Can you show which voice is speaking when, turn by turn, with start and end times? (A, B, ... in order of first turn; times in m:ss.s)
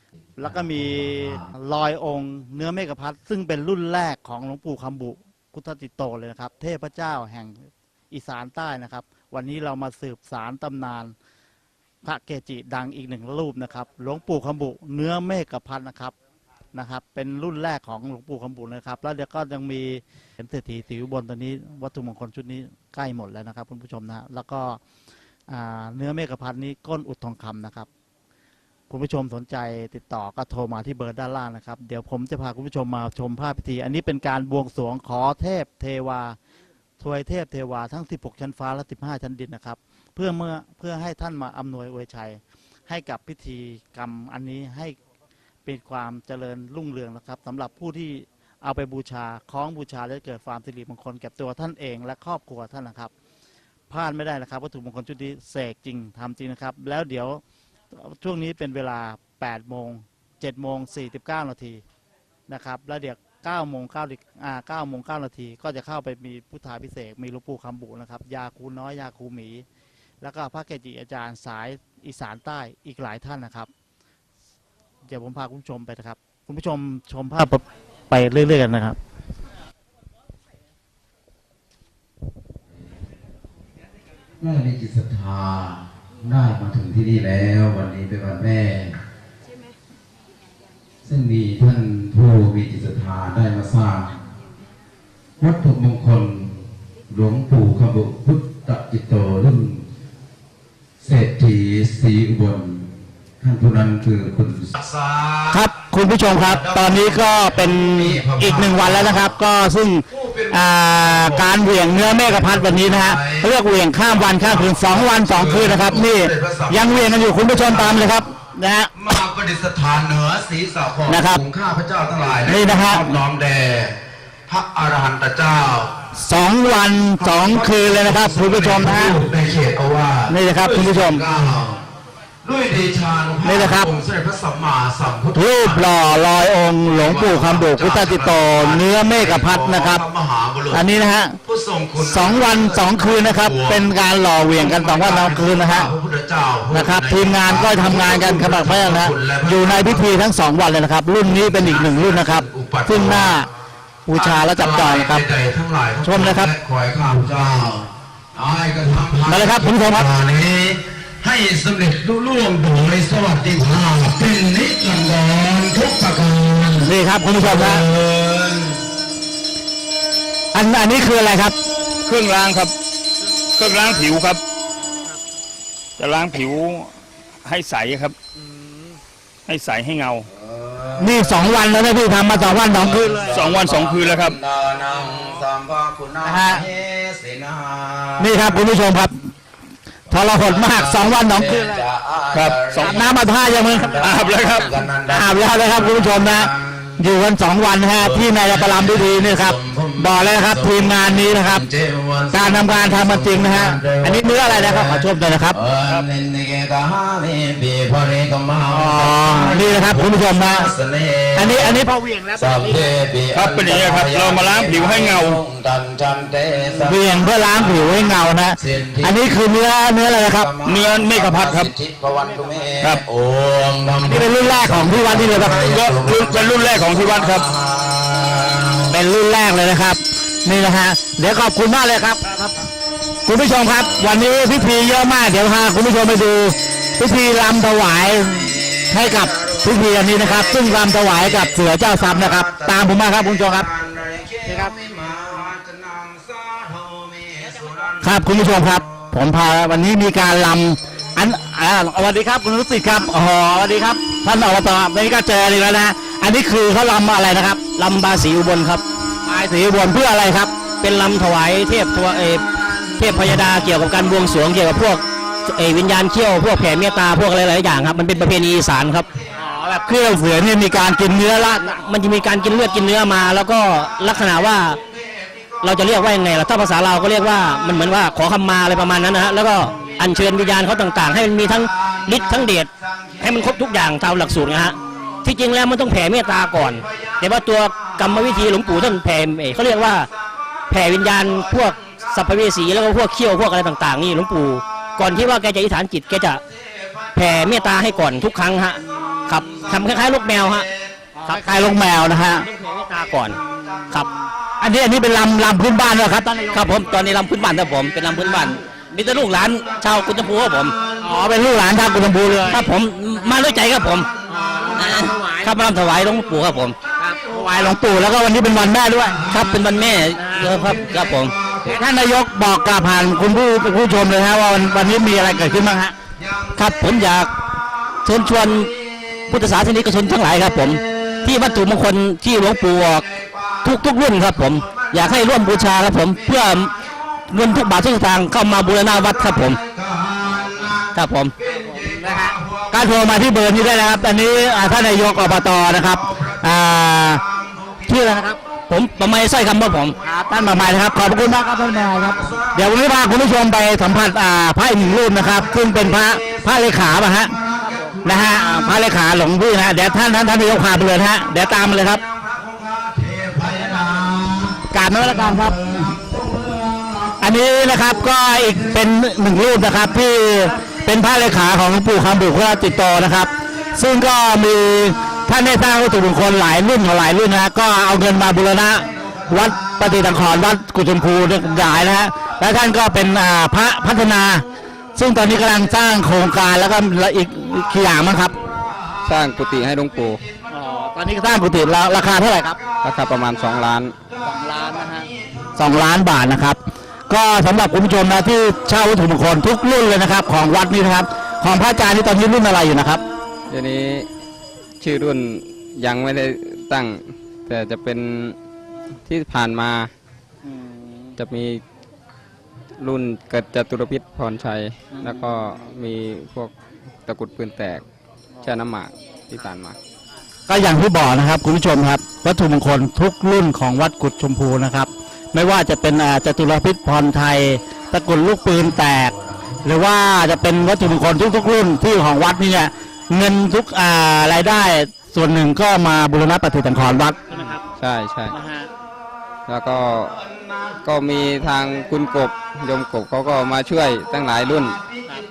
0:00.4-0:01.5 A
0:00.4-0:11.2 B
0:12.0-0:16.1 B
0:16.7-0:24.8 B
0:25.5-0:27.9 B
0:28.9-0:36.4 B
0:37.0-0:45.0 B
0:45.6-0:53.1 B
0:53.9-0:57.4 B
0:57.9-1:01.8 B
1:02.5-1:09.6 B
1:10.2-1:13.7 B
1:15.0-1:19.0 B
1:24.4-1:29.0 A
1:31.0-1:34.2 A
1:35.4-1:39.8 A
1:41.0-1:45.6 A
1:45.5-1:58.9 B
1:46.5-1:49.3 A
1:50.2-1:53.5 A
1:54.1-1:58.2 A
1:59.0-2:05.9 A
2:01.1-2:01.4 B
2:02.4-2:03.2 B
2:06.2-2:09.2 B
2:07.3-2:11.8 A
2:10.3-2:11.2 B
2:12.4-2:16.0 A
2:13.4-2:13.9 B
2:15.3-2:20.0 B
2:16.9-2:20.8 A
2:20.7-2:21.4 B
2:21.5-2:23.9 A
2:22.0-2:25.9 B
2:24.6-2:30.2 A
2:26.7-2:33.5 B
2:31.4-2:33.4 A
2:34.1-2:35.2 B
2:34.2-2:48.9 A
2:36.0-2:36.5 B
2:39.2-2:40.1 B
2:46.8-2:47.8 B
2:50.5-2:51.6 B
2:52.1-2:52.8 C
2:53.6-2:54.4 C
2:56.0-2:56.9 C
2:57.5-2:58.2 C
2:59.5-3:00.2 C
3:00.3-3:01.6 A
3:01.0-3:03.3 B
3:02.3-3:08.5 A
3:03.3-3:04.4 C
3:06.2-3:06.6 B
3:08.2-3:09.1 B
3:10.1-3:11.8 B
3:10.3-3:16.9 A
3:12.3-3:13.1 C
3:12.9-3:14.0 B
3:13.9-3:14.9 C
3:15.1-3:21.6 B
3:18.0-3:20.9 A
3:21.5-3:30.1 A
3:22.3-3:25.6 B
3:28.7-3:30.7 B
3:30.6-3:31.8 A
3:31.3-3:32.8 B
3:32.4-3:37.9 A
3:33.3-3:35.4 C
3:36.8-3:40.5 B
3:38.6-3:39.1 A
3:40.4-3:48.9 A
3:40.6-3:41.7 C
3:42.3-3:42.6 B
3:44.0-3:45.7 B
3:45.4-3:47.5 C
3:48.9-3:52.6 B
3:53.3-4:03.7 B
3:58.6-4:09.1 A
4:08.0-4:17.6 B
4:17.8-4:18.8 D
4:19.2-4:20.6 B
4:20.7-4:29.1 D
4:29.4-4:31.7 B
4:31.6-4:34.8 D
4:35.6-4:50.1 D
4:50.7-4:56.4 D
4:57.1-5:00.7 D
5:01.2-5:02.5 B
5:02.4-5:04.1 D
5:04.6-5:06.8 B
5:06.5-5:10.8 D
5:11.0-5:12.7 B
5:12.5-5:17.3 D
5:14.3-5:15.3 B
5:17.3-5:19.2 B
5:19.3-5:21.4 D
5:21.6-5:25.9 B
5:26.6-5:27.3 D
5:28.0-5:28.7 D
5:29.3-5:33.1 D
5:33.6-5:36.7 D
5:37.3-5:39.6 D
5:40.4-5:42.3 D
5:41.5-5:47.2 B
5:47.8-5:48.4 B
5:48.7-5:50.0 D
5:50.0-5:57.4 B
5:58.0-6:02.0 B
6:02.4-6:07.1 A
6:04.7-6:05.6 B
6:07.2-6:24.4 B
6:25.0-6:28.4 B
6:29.0-6:30.2 E
6:30.5-6:32.6 B
6:32.8-6:34.0 E
6:34.2-6:36.6 B
6:37.1-6:43.0 B
6:43.5-6:44.1 E
6:44.8-6:48.4 E
6:49.1-6:49.9 E
6:50.5-6:51.1 B
6:51.2-6:51.6 E
6:52.8-6:56.5 E
6:57.1-6:57.8 E
6:58.4-6:59.8 E
7:00.5-7:17.4 B
7:17.3-7:18.4 E
7:18.3-7:18.7 B
7:19.5-7:20.2 E
7:20.8-7:24.8 E